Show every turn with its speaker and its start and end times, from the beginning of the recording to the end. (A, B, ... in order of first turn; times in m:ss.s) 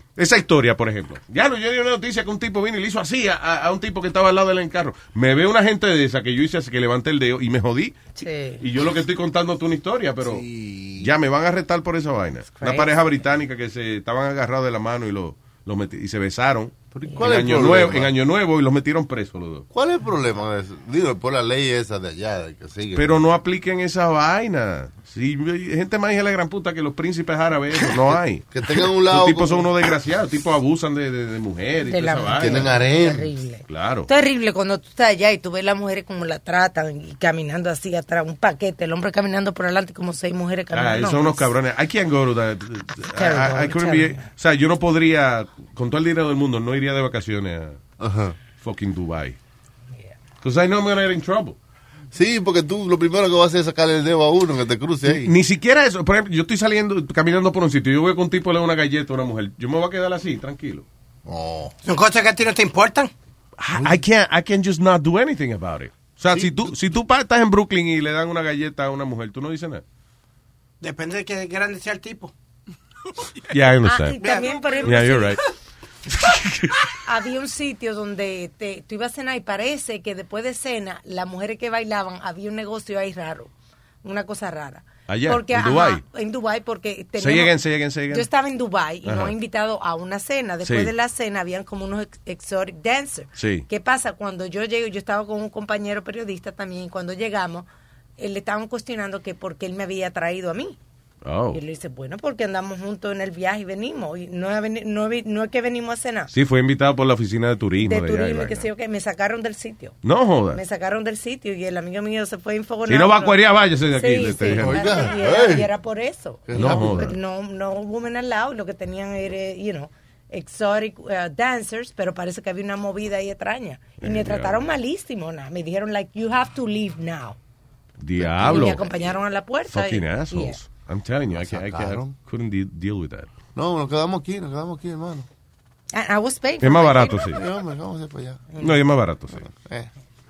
0:00.2-0:10.4 A
0:08.2-0:08.6 B
0:10.2-0:11.1 C
0:11.0-0:19.6 A
0:12.6-0:12.9 B
0:17.0-0:18.1 C
0:17.1-0:17.3 B
0:19.7-0:23.2 C
0:22.9-0:28.5 A
0:28.1-0:29.7 C
0:29.0-0:32.8 A
0:31.9-0:41.5 B
0:32.4-0:33.3 C
0:33.7-0:34.1 A
0:40.7-0:47.8 A
0:43.1-0:44.2 B
0:48.0-0:48.4 C
0:48.5-0:49.4 A
0:50.4-0:51.6 A
0:52.1-0:55.3 C
0:55.0-1:00.8 A
1:01.2-1:01.7 C
1:01.8-1:03.1 D
1:03.6-1:09.8 A
1:03.7-1:04.0 C
1:10.8-1:12.3 D
1:13.5-1:15.4 A
1:13.8-1:15.4 B
1:14.2-1:14.5 D
1:16.2-1:16.8 A
1:17.0-1:23.5 B
1:24.0-1:27.5 B
1:25.1-1:26.0 A
1:27.2-1:28.3 A
1:28.1-1:37.7 B
1:29.0-1:29.3 A
1:30.6-1:30.9 A
1:33.4-1:33.6 A
1:38.2-1:40.8 B
1:41.2-1:41.6 A
1:41.5-1:46.3 B
1:46.3-1:48.7 A
1:47.8-1:50.0 B
1:50.0-1:50.6 A
1:50.5-1:53.4 B
1:52.9-1:55.0 A
1:53.9-2:07.4 B
1:54.6-1:55.7 C
1:56.5-1:57.1 C
1:56.5-1:57.2 A
2:04.0-2:04.7 A
2:08.0-2:08.8 A
2:08.2-2:08.8 C
2:08.4-2:10.6 B
2:09.7-2:13.3 A
2:11.3-2:12.2 C
2:13.5-2:15.3 C
2:15.9-2:17.3 B
2:16.6-2:17.4 A
2:17.1-2:18.5 C
2:18.6-2:19.4 A
2:19.4-2:19.9 C